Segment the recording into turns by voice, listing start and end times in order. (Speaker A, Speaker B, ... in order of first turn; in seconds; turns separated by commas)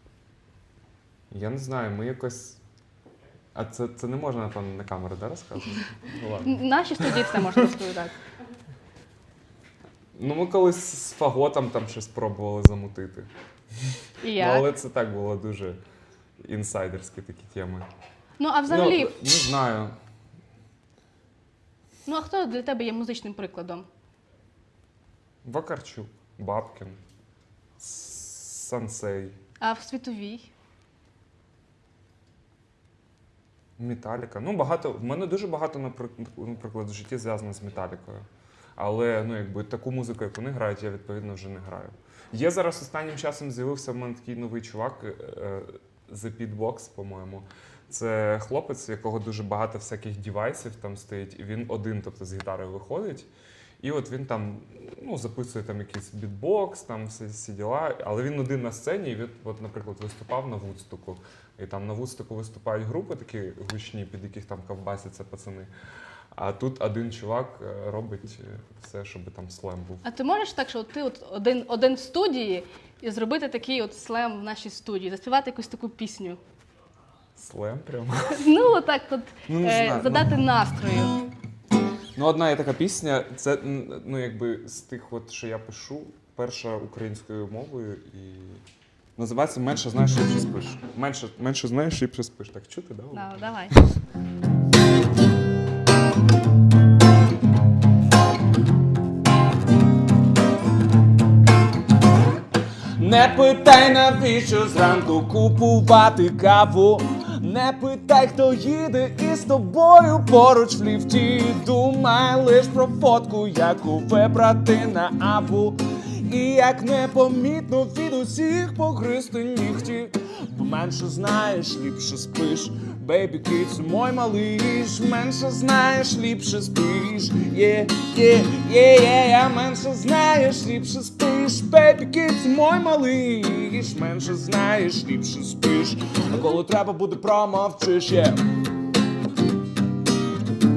Speaker A: 1.3-2.6, Speaker A: 3.5-7.4, Speaker B: 6.4-8.1, Speaker A: 10.1-13.3, Speaker A: 13.8-15.8, Speaker B: 14.2-14.7, Speaker A: 16.4-17.9, Speaker B: 18.4-19.2, Speaker A: 18.7-19.9, Speaker B: 22.1-23.9, Speaker A: 25.4-27.0, Speaker A: 27.8-29.4, Speaker B: 29.6-30.5, Speaker A: 33.8-38.2, Speaker A: 38.8-53.3, Speaker A: 53.8-65.7, Speaker A: 66.3-70.0, Speaker B: 70.0-76.4, Speaker A: 77.3-78.4, Speaker B: 78.3-81.1, Speaker A: 79.5-80.3, Speaker A: 82.2-88.6, Speaker A: 89.2-93.3, Speaker B: 93.1-93.7, Speaker C: 103.0-138.4